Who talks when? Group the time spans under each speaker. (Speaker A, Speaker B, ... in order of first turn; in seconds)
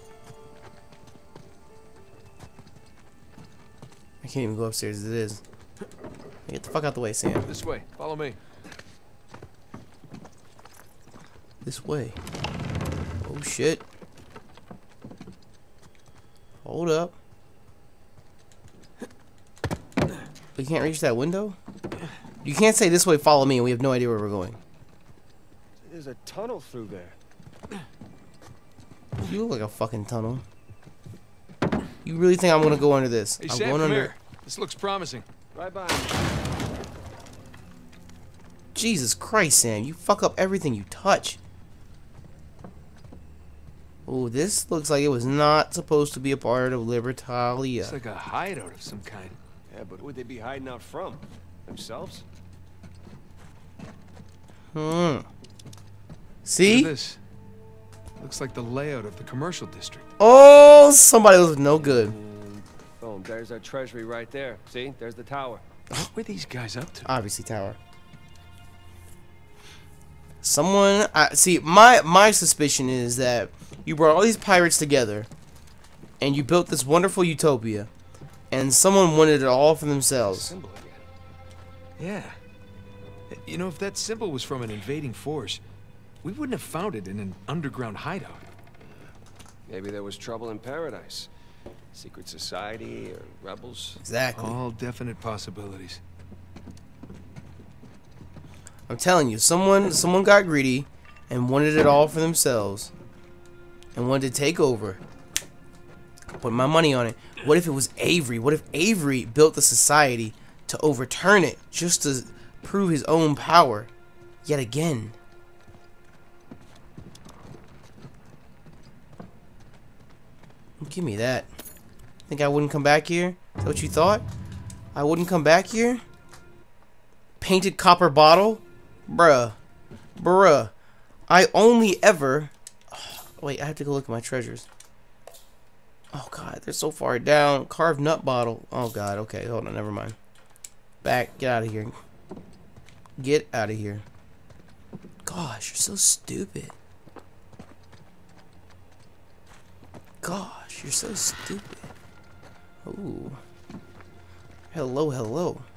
Speaker A: 4.2-5.4, 6.5-7.5, 11.6-12.2, 13.2-13.8, 16.6-17.1, 20.6-21.6, 22.4-24.6, 29.2-30.4, 32.0-34.1, 38.8-41.4, 44.1-48.0, 54.7-55.3, 56.5-56.9, 60.2-62.1, 67.0-67.8, 70.4-75.3, 76.2-77.9, 78.5-80.5, 94.0-94.6, 98.9-102.9, 104.0-105.0, 106.3-113.9, 114.5-115.2, 120.8-121.5, 122.3-124.2, 125.0-126.0, 127.4-129.6, 130.2-130.7, 131.3-134.7, 136.1-140.2, 141.0-141.9, 143.2-144.1, 145.2-146.7, 150.2-151.9, 152.8-153.4, 154.7-155.7
Speaker B: 7.5-8.4, 33.4-35.3, 47.8-49.4, 56.6-57.2, 58.2-60.1, 65.9-67.1, 82.0-82.4, 83.3-85.6, 86.2-88.5, 94.4-96.0
Speaker C: 25.8-27.2, 35.5-36.3, 49.7-52.2, 61.8-65.6, 80.2-81.1, 89.7-91.3, 91.9-94.0